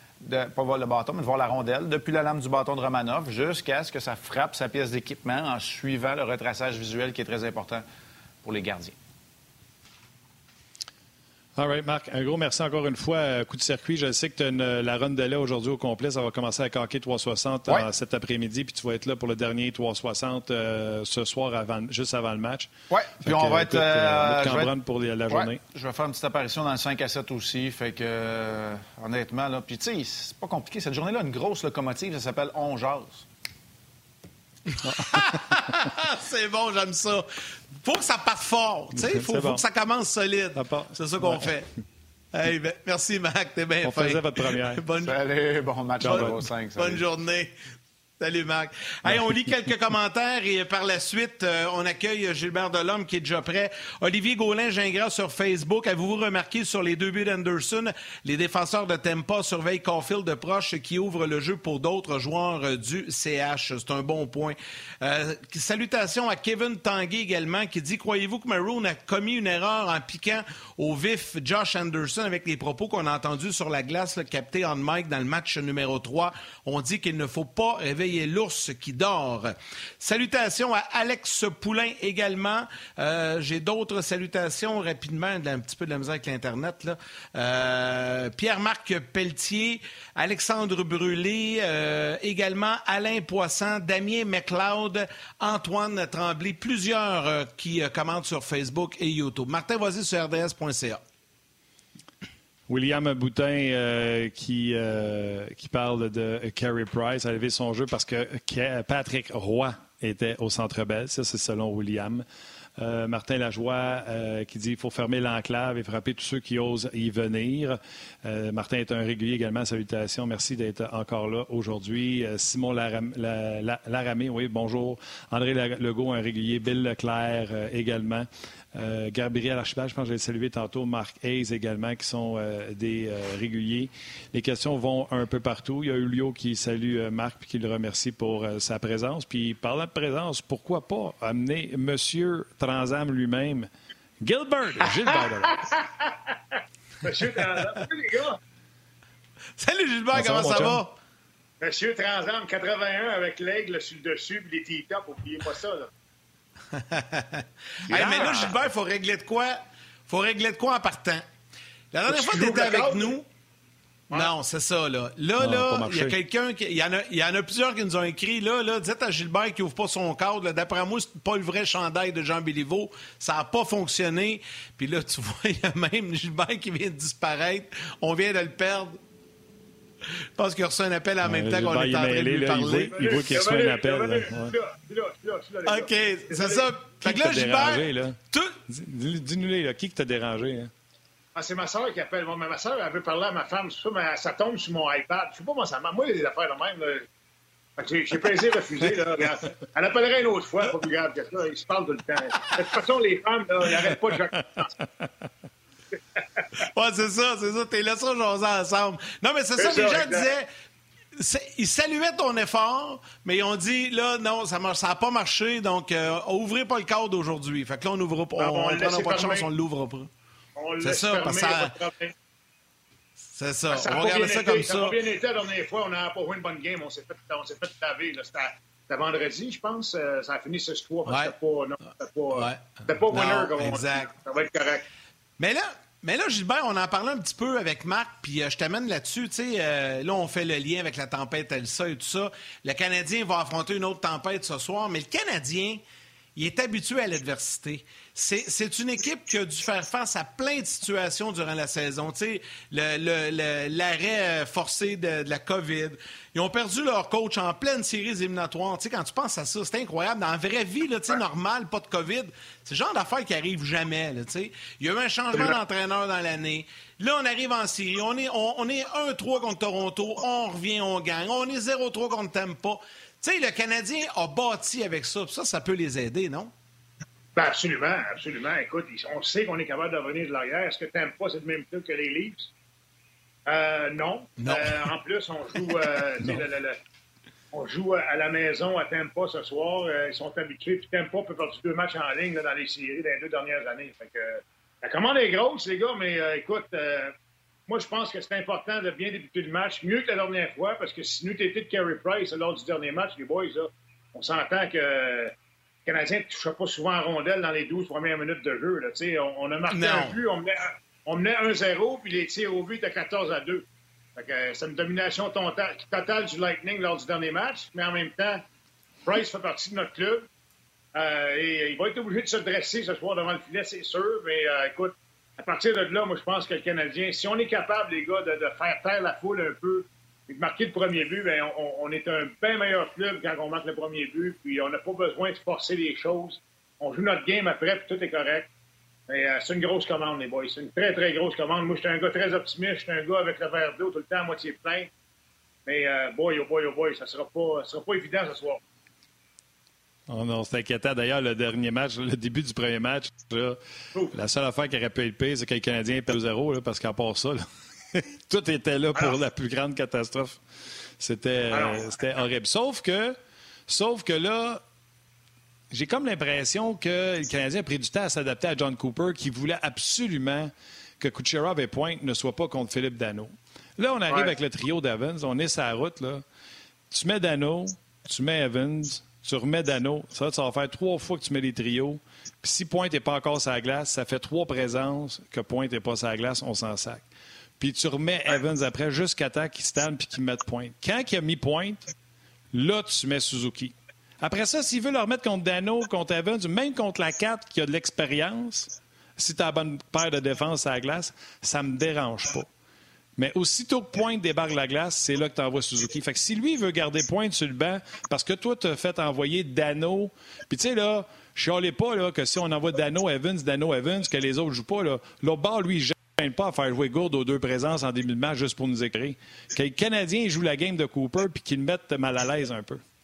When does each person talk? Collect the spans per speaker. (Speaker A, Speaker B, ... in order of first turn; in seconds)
Speaker A: 0.2-7.8, 8.4-8.9, 22.9-24.7, 25.3-33.2, 45.0-47.0
Speaker B: 11.6-22.7, 23.2-25.6, 34.8-35.2, 38.9-39.6, 40.5-41.5, 43.8-44.8, 46.0-46.4, 102.7-112.2, 112.8-143.7, 144.2-145.6, 150.1-150.8, 157.9-158.5, 165.4-166.2, 181.2-184.6, 187.0-190.7, 350.1-353.6, 354.1-360.4, 361.0-363.1, 363.7-364.6, 365.7-376.2, 376.9-387.1, 387.6-391.9, 392.5-402.5, 403.2-422.8
Speaker C: 34.7-37.3, 37.8-41.7, 42.3-45.1, 46.0-47.5, 48.2-101.0, 149.6-150.9, 156.7-161.2, 161.9-163.2, 164.1-179.0, 180.4-183.3, 185.7-187.9, 206.7-210.5, 211.2-220.1, 220.8-221.7, 223.3-225.0, 231.1-231.3, 232.3-234.1, 235.4-245.8, 246.3-276.5, 284.4-284.9, 309.7-310.2
Speaker D: 145.1-148.4, 151.6-155.9, 157.9-158.3, 162.1-163.2, 182.9-186.7, 191.3-197.1, 197.8-204.7, 209.6-210.3, 218.4-219.5, 220.6-222.1, 223.7-234.8, 277.4-282.5, 283.5-286.8, 287.5-297.1, 297.7-305.3, 305.9-313.6, 314.1-318.4, 319.1-320.3, 320.9-338.5, 339.1-344.9, 345.6-348.6, 361.5-361.9, 374.1-374.3